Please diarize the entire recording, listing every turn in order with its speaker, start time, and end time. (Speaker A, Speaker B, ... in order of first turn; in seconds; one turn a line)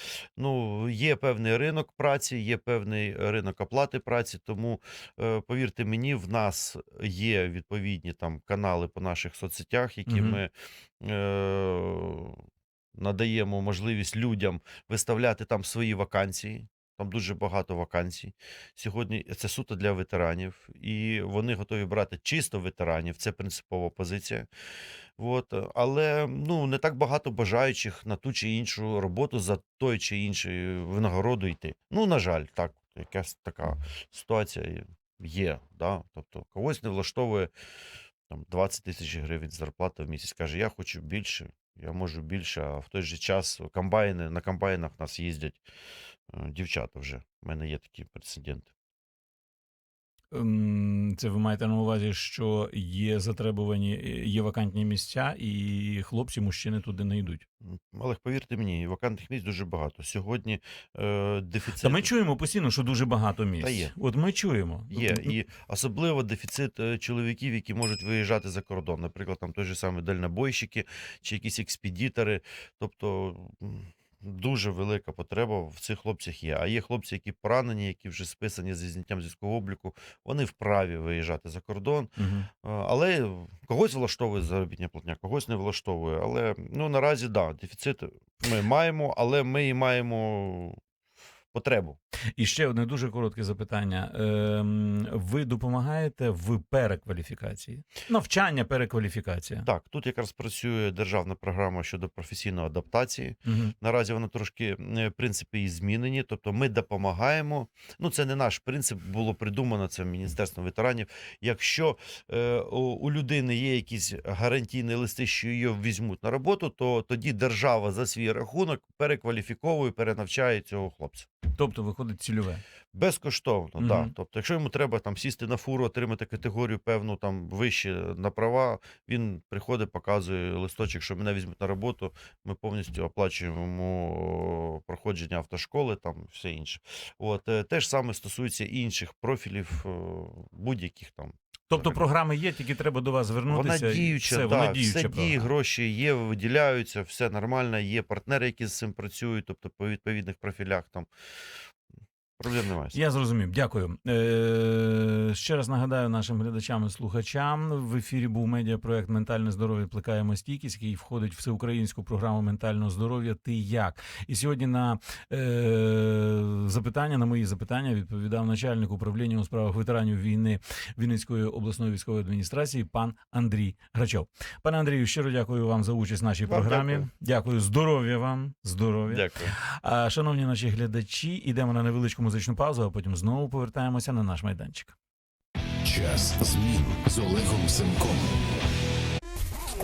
Speaker A: 0.4-12.4
Speaker B: 10.1-10.4
Speaker A: 12.9-24.5
Speaker A: 25.2-37.5
Speaker A: 38.3-45.6
Speaker A: 46.3-48.7
Speaker B: 50.3-57.4
Speaker A: 57.7-62.1
Speaker B: 61.8-65.3
Speaker A: 63.6-63.9
Speaker A: 64.9-90.8
Speaker B: 82.2-82.5
Speaker A: 91.5-92.0
Speaker B: 92.4-99.7
Speaker A: 99.6-121.3
Speaker B: 103.5-103.7
Speaker B: 121.5-122.6
Speaker A: 122.9-142.1
Speaker B: 123.8-124.1
Speaker B: 141.7-145.5
Speaker A: 143.5-151.1
Speaker A: 152.4-153.0
Speaker B: 152.9-184.9
Speaker A: 176.5-177.1
Speaker A: 179.1-179.6
Speaker C: 185.8-188.2